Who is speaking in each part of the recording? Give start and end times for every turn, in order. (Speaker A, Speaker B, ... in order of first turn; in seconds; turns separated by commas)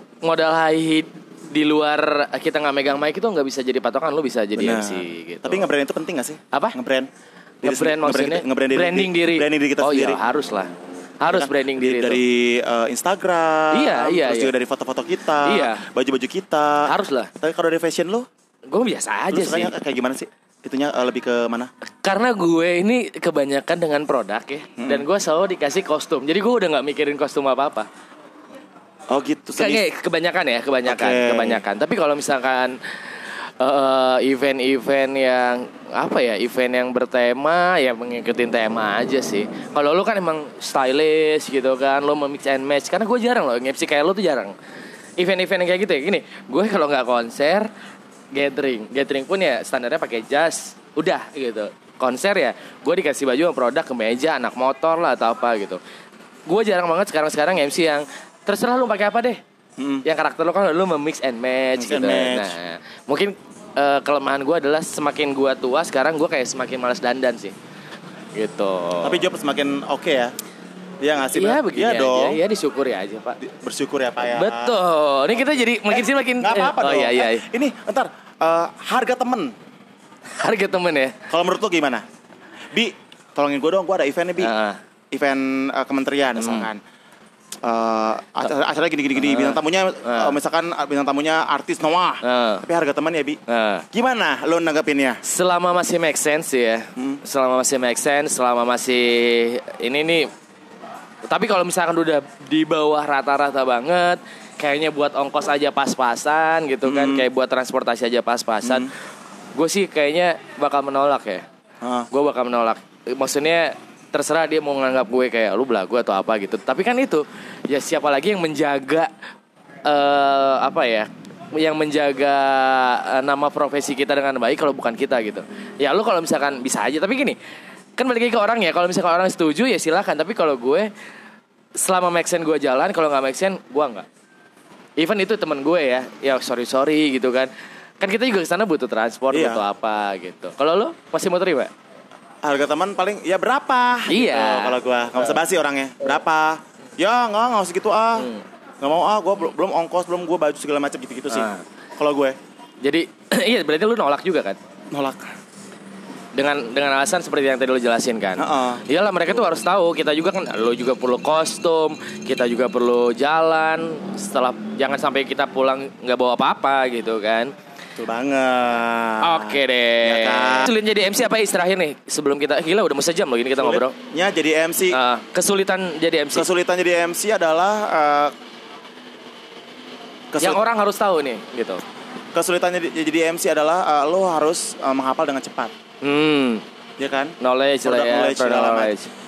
Speaker A: 0.2-5.7, Speaker B: 4.5-7.1, Speaker B: 7.6-10.2, Speaker A: 7.6-10.7, Speaker A: 11.2-12.2, Speaker B: 11.3-18.3, Speaker A: 13.7-14.5, Speaker A: 15.4-15.8, Speaker A: 16.8-17.3, Speaker A: 18.7-19.7, Speaker B: 19.3-21.7, Speaker A: 22.0-27.9, Speaker B: 24.8-25.1, Speaker B: 29.1-29.8, Speaker A: 29.5-32.8, Speaker B: 30.9-31.6, Speaker A: 33.6-44.5, Speaker A: 45.2-47.7, Speaker A: 48.3-55.8, Speaker A: 56.5-59.4, Speaker B: 59.8-60.0, Speaker A: 60.0-67.5, Speaker B: 61.8-62.5, Speaker A: 68.3-69.2, Speaker B: 69.0-70.3, Speaker B: 71.0-72.4, Speaker A: 71.3-73.4, Speaker B: 73.4-74.8, Speaker A: 74.3-77.5, Speaker B: 75.3-79.5, Speaker A: 80.4-81.1, Speaker B: 81.3-82.0, Speaker B: 82.7-84.5, Speaker A: 84.4-84.8, Speaker B: 85.1-86.8, Speaker A: 86.4-86.7, Speaker B: 87.6-93.4, Speaker A: 89.2-90.3, Speaker A: 92.2-92.6, Speaker A: 93.5-93.8, Speaker B: 93.9-95.2, Speaker A: 95.2-100.3, Speaker A: 101.2-108.9, Speaker B: 106.8-107.2, Speaker B: 108.6-108.9, Speaker A: 109.5-111.4, Speaker B: 111.8-112.1, Speaker A: 112.1-119.1, Speaker A: 119.8-127.4, Speaker A: 128.0-130.9, Speaker A: 131.8-134.1, Speaker A: 135.0-141.7, Speaker B: 139.3-139.6, Speaker B: 142.4-148.3, Speaker A: 144.1-144.8, Speaker B: 148.8-152.3, Speaker A: 151.3-151.6, Speaker A: 152.8-154.6, Speaker B: 154.9-155.3, Speaker A: 156.3-167.5, Speaker B: 158.4-159.6, Speaker B: 168.0-170.7, Speaker A: 169.2-173.9, Speaker B: 173.6-175.0, Speaker A: 174.9-176.5, Speaker B: 176.3-178.3, Speaker B: 180.3-180.6, Speaker A: 180.4-181.8, Speaker B: 182.3-185.7, Speaker A: 186.0-186.6, Speaker B: 187.0-188.9, Speaker A: 187.4-189.1